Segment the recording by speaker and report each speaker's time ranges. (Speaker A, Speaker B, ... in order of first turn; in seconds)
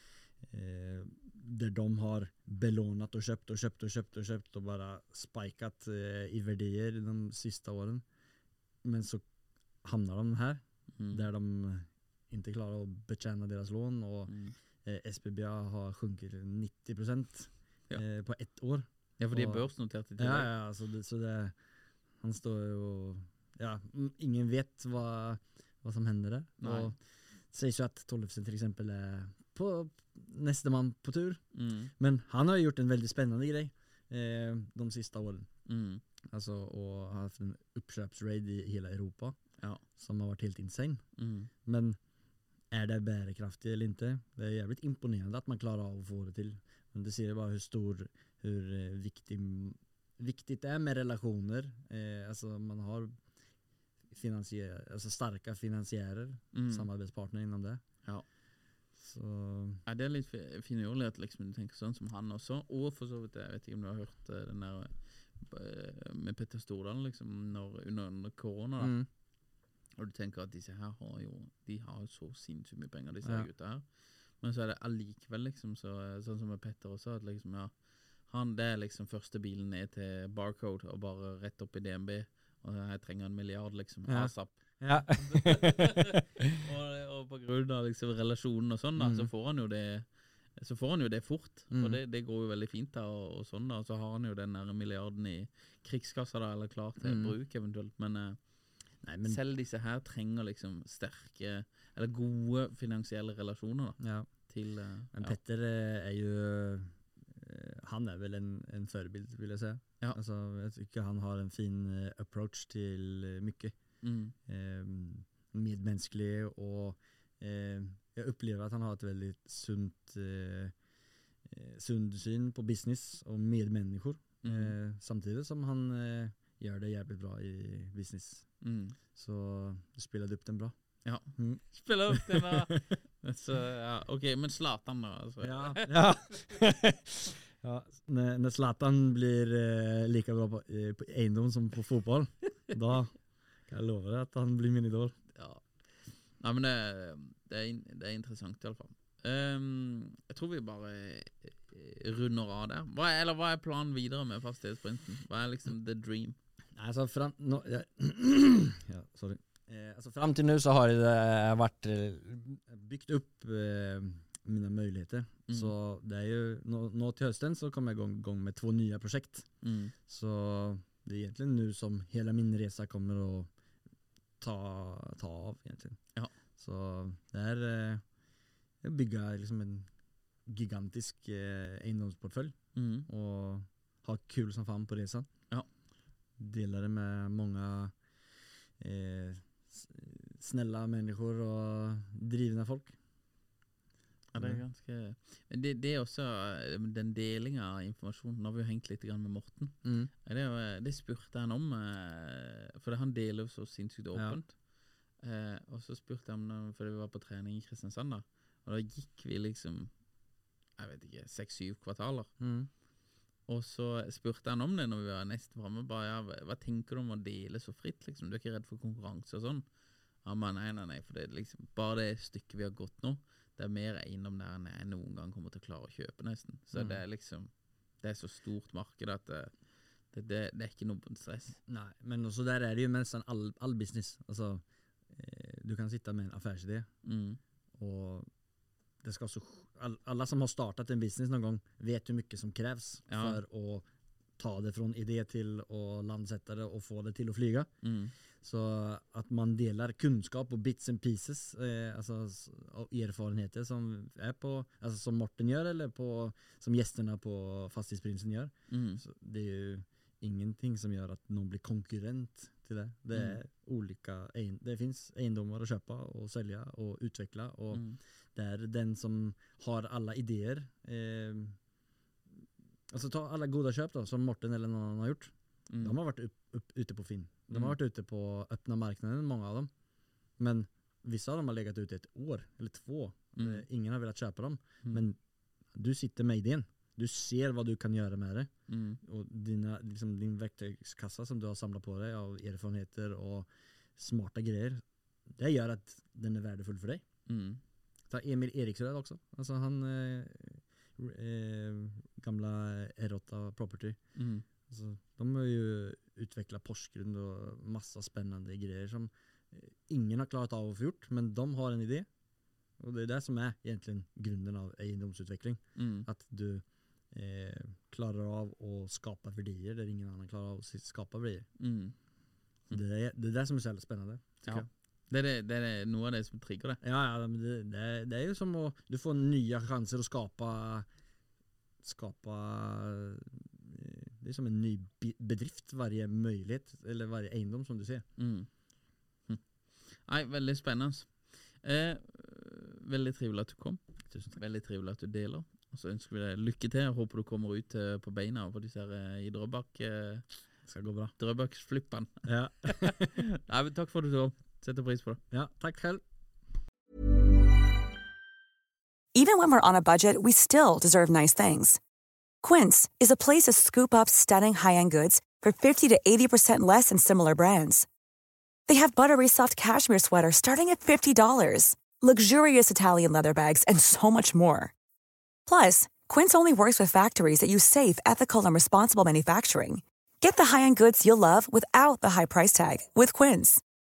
Speaker A: 0.5-8.0, 8.8-9.2, 9.8-14.3, 14.8-19.6, 20.2-21.6, 22.2-27.0, 27.5-31.4, 32.0-35.5, 36.3-39.4, 40.0-41.0, 41.6-42.0, 42.7-53.1, 54.1-57.8, 59.0-59.8, 68.8-69.1, 73.2-73.5, 84.1-86.6, 89.0-89.3, 91.7-92.0, 97.0-97.3, 99.0-99.4, 104.0-104.3, 105.1-113.8, 114.5-120.7, 121.5-128.5, 129.2-130.7, 131.4-132.8, 135.4-143.1, 143.7-145.2, 156.8-169.5, 170.1-173.5, 174.4-176.0, 176.6-178.0, 178.8-179.9, 180.5-182.6, 183.1-185.3, 186.4-187.9, 188.8-192.9, 199.8-200.1, 204.2-204.4, 212.4-212.7, 226.7-227.0, 231.7-236.9, 237.8-238.3, 239.0-243.9, 244.4-247.7, 248.4-271.6, 272.9-279.7, 280.4-285.2, 285.8-288.5, 289.0-297.0, 298.1-304.0, 304.7-312.1, 312.8-321.5, 322.7-324.7, 326.8-330.9, 331.8-338.1, 344.1-344.4, 350.7-351.1, 352.2-353.2, 355.3-356.0
Speaker B: 11.0-11.3, 14.3-14.6, 19.2-20.5, 26.6-26.9, 31.5-31.9, 35.7-36.0, 41.2-41.5, 56.5-56.9, 59.9-69.0, 70.0-73.8, 74.4-77.7, 78.3-84.6, 85.1-90.0, 90.6-98.4, 99.2-105.4, 114.0-114.3, 124.4-124.7, 128.6-129.0, 131.1-136.6, 145.3-145.6, 146.4-156.4, 165.5-165.7, 169.6-169.9, 182.8-183.1, 194.3-204.5, 205.2-209.9, 210.8-212.3, 213.5-219.7, 220.2-227.5, 228.0-229.5, 230.1-231.6, 237.0-237.4, 243.1-243.4, 247.8-248.1, 258.7-259.0, 263.1-263.4, 267.7-268.0, 275.7-276.0, 277.5-277.8, 283.4-283.6, 288.7-289.0, 297.3-297.6, 304.2-304.4, 315.8-316.1, 321.6-321.9, 324.4-326.8, 338.2-338.5, 339.9-350.2, 351.2-355.2
Speaker C: 359.1-361.8, 362.4-367.9, 368.7-374.7, 375.5-383.6